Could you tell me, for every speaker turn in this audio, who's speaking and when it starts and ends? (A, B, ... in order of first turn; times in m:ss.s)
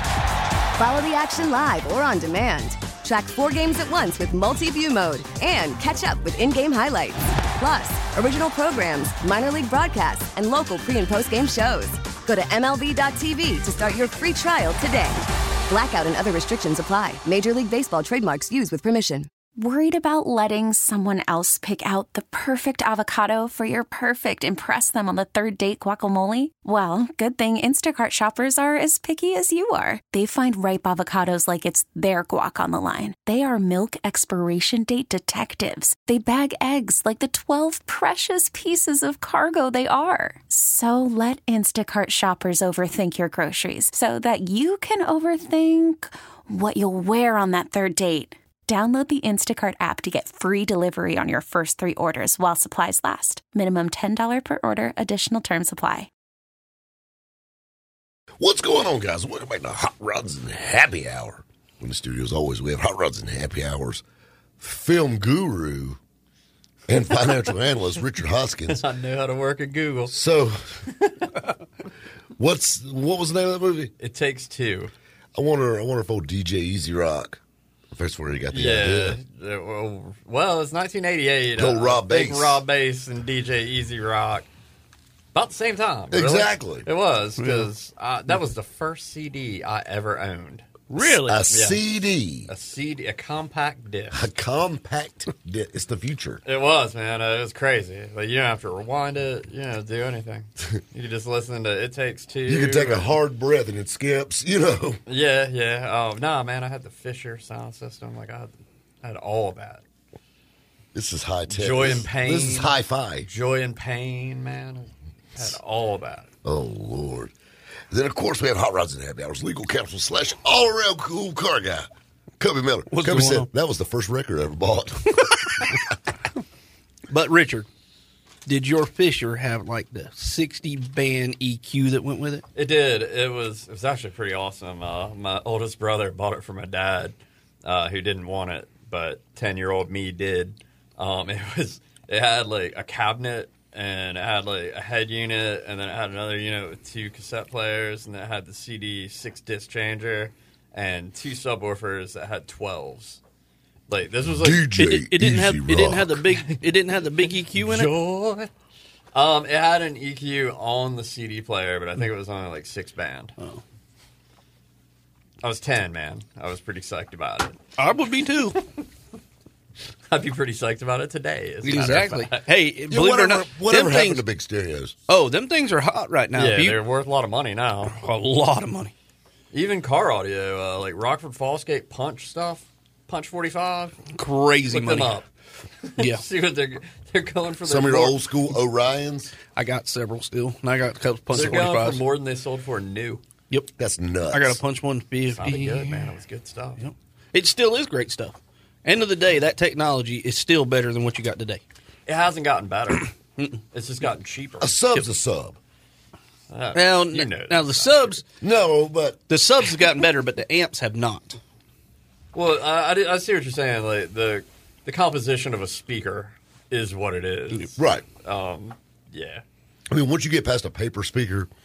0:00.8-0:19.3 A
0:19.6-0:56.1 B
0:58.4-1:04.0 C
1:04.6-1:06.0 C
1:06.9-1:08.8 C
1:08.7-1:10.2 D
1:10.1-1:10.9 C
1:10.9-1:11.3 D
1:12.4-1:13.9 C
1:14.0-1:14.9 D
1:15.4-1:19.2 C
1:18.5-1:24.5 D
1:21.6-1:22.6 C
1:25.3-1:30.8 D
1:26.1-1:26.9 C
1:27.4-1:27.7 E
1:30.9-1:31.4 E
1:31.2-1:32.5 C
1:31.5-1:31.8 D
1:32.5-1:34.2 D
1:34.1-1:36.4 C
1:36.4-1:43.1 D
1:42.5-1:45.0 C
1:45.1-1:49.8 D
1:50.9-1:53.3 C
1:51.5-1:56.3 D
1:56.4-1:57.3 C
1:57.9-2:05.8 C
2:02.9-2:03.5 E
2:07.1-2:07.7 E
2:08.4-2:12.4 E
2:12.5-2:33.2 D
2:33.9-2:34.7 D
2:34.2-2:36.2 C
2:34.8-2:37.9 E
2:37.5-2:38.5 D
2:39.1-2:43.3 D
2:45.4-2:47.6 D
2:47.8-2:48.6 E
2:50.1-2:52.5 D
2:51.6-2:54.2 E
2:52.9-2:55.0 C
2:55.1-2:56.8 E
2:56.3-2:58.0 D
2:57.9-2:58.9 E
2:59.5-3:04.1 D
3:04.1-3:05.1 E
3:04.7-3:05.3 D
3:05.8-3:08.2 D
3:06.0-3:06.2 E
3:07.6-3:09.3 C
3:09.5-3:12.0 E
3:11.3-3:13.2 D
3:13.8-3:14.6 C
3:14.3-3:16.1 E
3:15.3-3:16.8 D
3:16.8-3:21.6 E
3:22.0-3:23.1 D
3:23.7-3:25.1 D
3:24.6-3:25.6 C
3:26.5-3:28.1 D
3:26.8-3:28.2 E
3:28.4-3:29.2 C
3:29.3-3:31.4 E
3:32.3-3:39.4 D
3:37.8-3:38.0 C
3:39.9-3:41.5 C